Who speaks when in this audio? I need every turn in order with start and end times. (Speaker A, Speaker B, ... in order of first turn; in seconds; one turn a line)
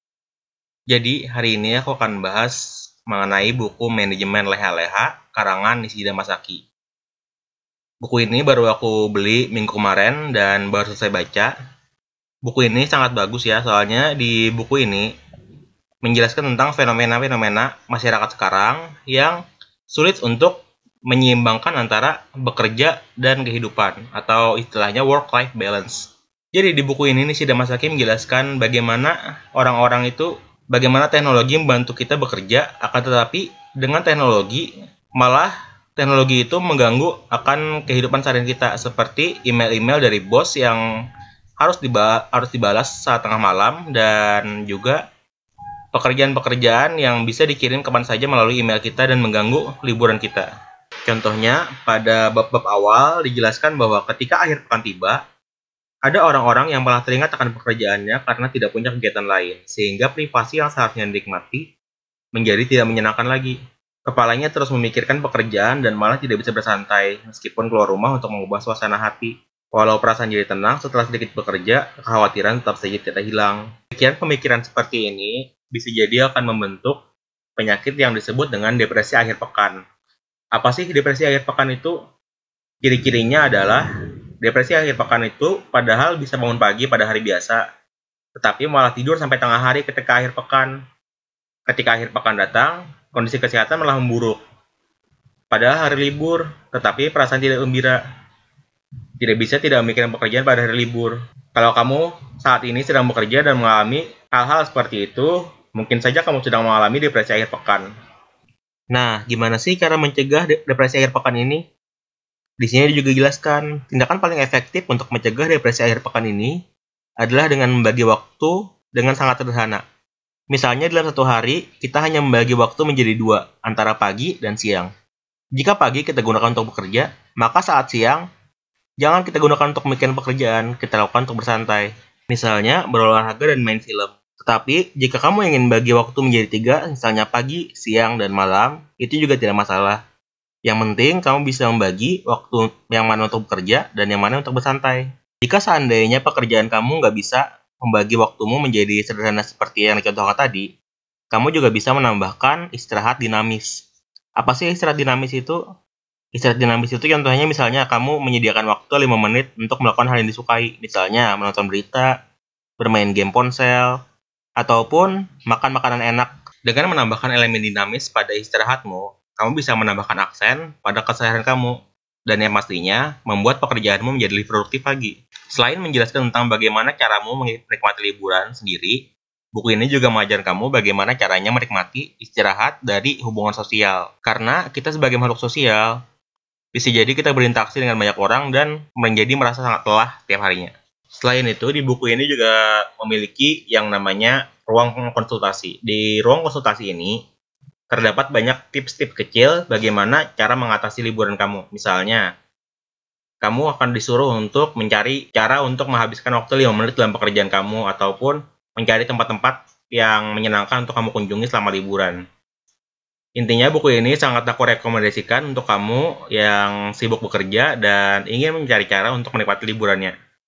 Speaker A: 0.9-6.6
Speaker A: 8.0-11.5
Speaker A: 12.4-15.1
Speaker A: 16.0-20.6
Speaker A: 21.1-40.8
Speaker A: 41.6-45.0
Speaker A: 45.9-50.5
Speaker A: 51.1-55.2
Speaker A: 56.0-61.6
Speaker A: 62.3-77.0
Speaker A: 77.6-79.8
Speaker A: 80.5-81.9
Speaker A: 82.8-83.8
Speaker A: 84.4-87.6
Speaker A: 88.3-90.7
Speaker A: 91.7-94.4
Speaker A: 95.5-98.0
Speaker A: 99.2-107.9
Speaker A: 108.9-111.6
Speaker A: 112.6-116.6
Speaker A: 117.2-119.8
Speaker A: 120.5-124.9
Speaker A: 125.6-128.2
Speaker A: 129.0-140.0
Speaker A: 140.7-150.7
Speaker A: 151.3-153.8
Speaker A: 154.4-155.6
Speaker A: 156.3-162.1
Speaker A: 162.8-164.0
Speaker A: 164.6-179.0
Speaker A: 179.5-185.9
Speaker A: 186.7-197.2
Speaker A: 197.9-202.2
Speaker A: 203.4-212.2
Speaker A: 213.4-220.1